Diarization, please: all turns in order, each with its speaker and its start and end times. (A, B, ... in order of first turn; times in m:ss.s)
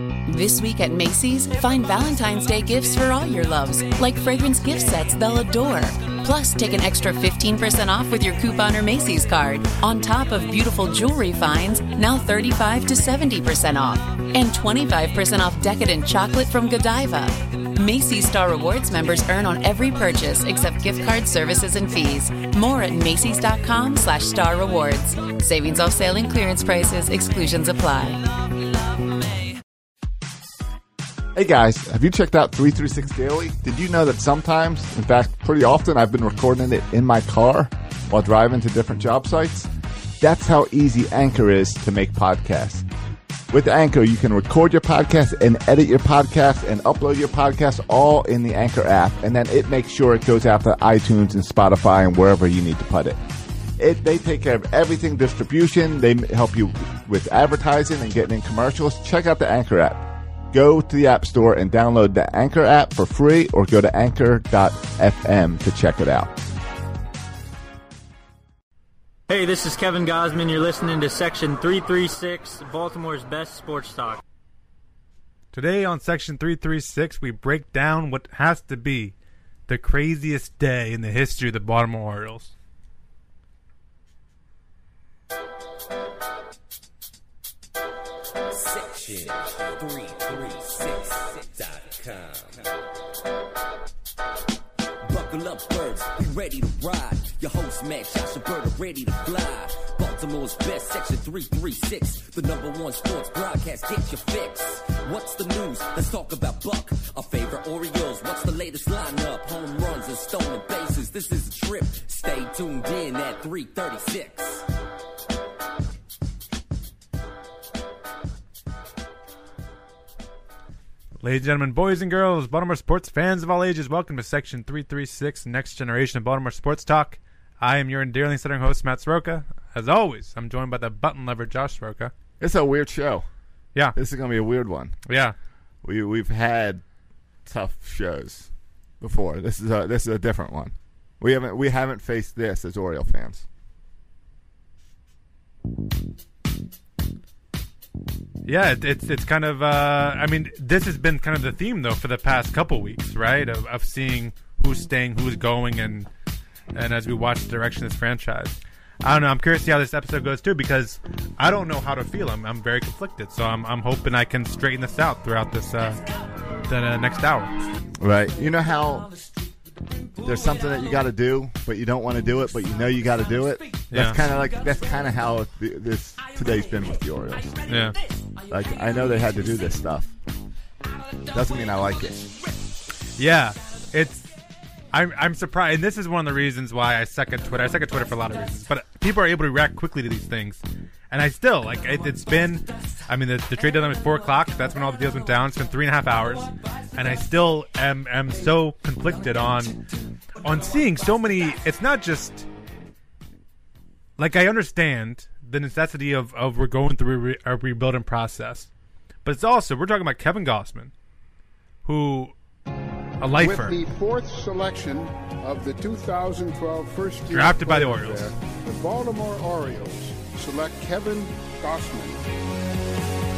0:00.2-0:28.2 A
0:31.3-0:39.7 B
0:40.2-0:42.9 B
0:43.5-0:53.2 B
0:53.8-1:06.3 B
1:09.3-1:14.2 C
1:15.5-1:19.1 D
1:19.7-1:22.5 D
1:28.5-1:32.6 E
1:35.0-1:54.6 E
2:01.2-2:12.1 D
2:12.4-2:13.2 B
2:13.9-2:15.0 B
2:15.1-2:15.3 D
2:15.8-2:16.8 B
2:17.4-2:18.5 B
2:19.0-2:23.4 B
2:28.4-2:36.1 D
2:36.7-2:46.0 D
2:46.6-2:47.5 D
2:48.0-2:49.1 B
2:50.2-2:57.6 B
2:53.9-2:54.2 D
2:57.7-2:58.0 D
2:58.5-3:00.1 B
3:01.3-3:02.3 B
3:03.2-3:04.3 D
3:04.9-3:19.8 D
3:20.4-3:22.4 D
3:24.2-3:28.7 D
3:29.2-3:30.9 D
3:31.8-3:32.3 D
3:33.2-3:33.8 D
3:33.4-3:42.2 F
3:37.3-3:38.2 D